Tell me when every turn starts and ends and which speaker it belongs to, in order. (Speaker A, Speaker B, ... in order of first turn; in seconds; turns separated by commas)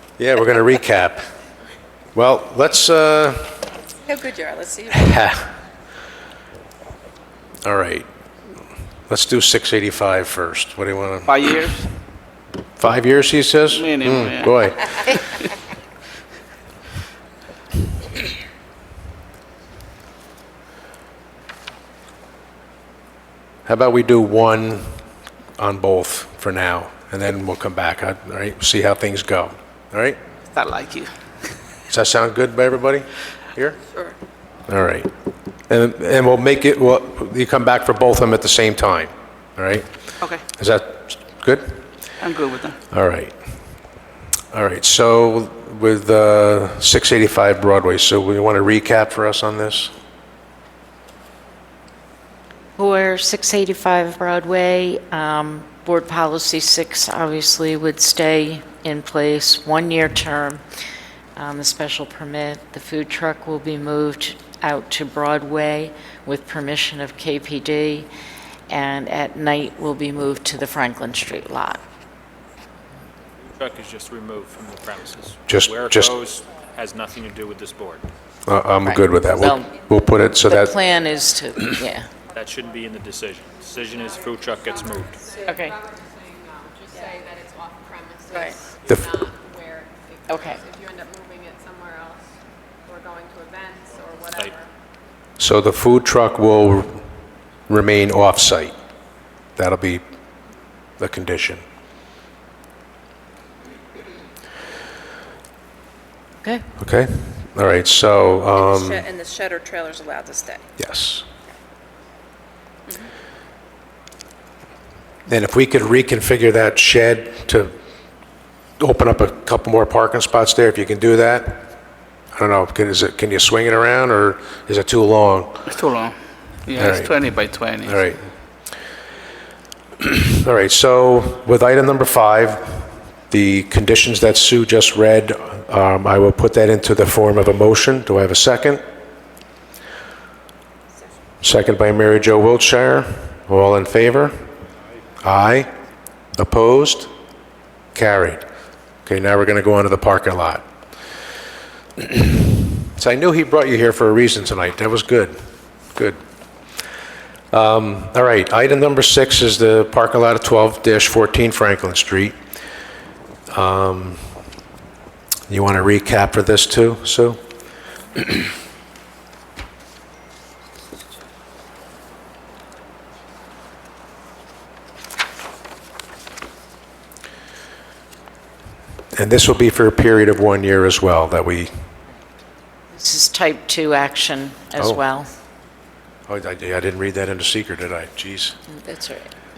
Speaker A: 0.2-1.2, Speaker A: 2.1-3.6, Speaker B: 4.0-5.2, Speaker A: 4.9-5.5, Speaker A: 7.6-8.1, Speaker A: 9.1-11.5, Speaker C: 11.2-11.9, Speaker A: 12.8-15.2, Speaker C: 13.7-14.5, Speaker A: 23.7-25.0, Speaker A: 25.6-30.2, Speaker C: 30.5-31.1, Speaker A: 31.9-33.8, Speaker B: 33.9-34.2, Speaker A: 34.7-35.1, Speaker A: 35.7-41.9, Speaker C: 42.2-42.8, Speaker A: 42.9-43.4, Speaker A: 44.5-49.9, Speaker D: 52.8-60.6, Speaker D: 61.4-68.1, Speaker D: 68.7-71.8, Speaker E: 73.5-78.1, Speaker A: 75.5-76.1, Speaker A: 78.5-80.8, Speaker D: 78.8-82.1, Speaker F: 82.3-94.7, Speaker E: 82.3-85.3, Speaker D: 85.4-85.8, Speaker B: 86.9-87.2, Speaker B: 88.3-88.6, Speaker A: 88.9-89.2, Speaker D: 90.3-90.6, Speaker A: 95.4-97.1, Speaker A: 97.7-98.8, Speaker A: 99.6-100.0, Speaker A: 101.0-101.6, Speaker A: 106.8-109.1, Speaker B: 108.5-110.6, Speaker A: 110.8-111.2, Speaker A: 115.2-117.7, Speaker A: 118.8-121.8, Speaker A: 122.3-125.8, Speaker C: 125.7-128.1, Speaker A: 126.8-128.2, Speaker A: 130.0-138.8, Speaker A: 141.4-144.3, Speaker A: 145.2-145.7, Speaker A: 146.3-147.1, Speaker A: 147.9-148.4, Speaker A: 149.1-150.6, Speaker A: 152.0-155.3, Speaker A: 155.9-156.2, Speaker A: 157.5-162.4, Speaker A: 163.5-164.2, Speaker A: 165.5-167.4, Speaker A: 179.1-181.7, Speaker D: 182.9-185.3, Speaker A: 186.3-188.6, Speaker D: 188.7-189.3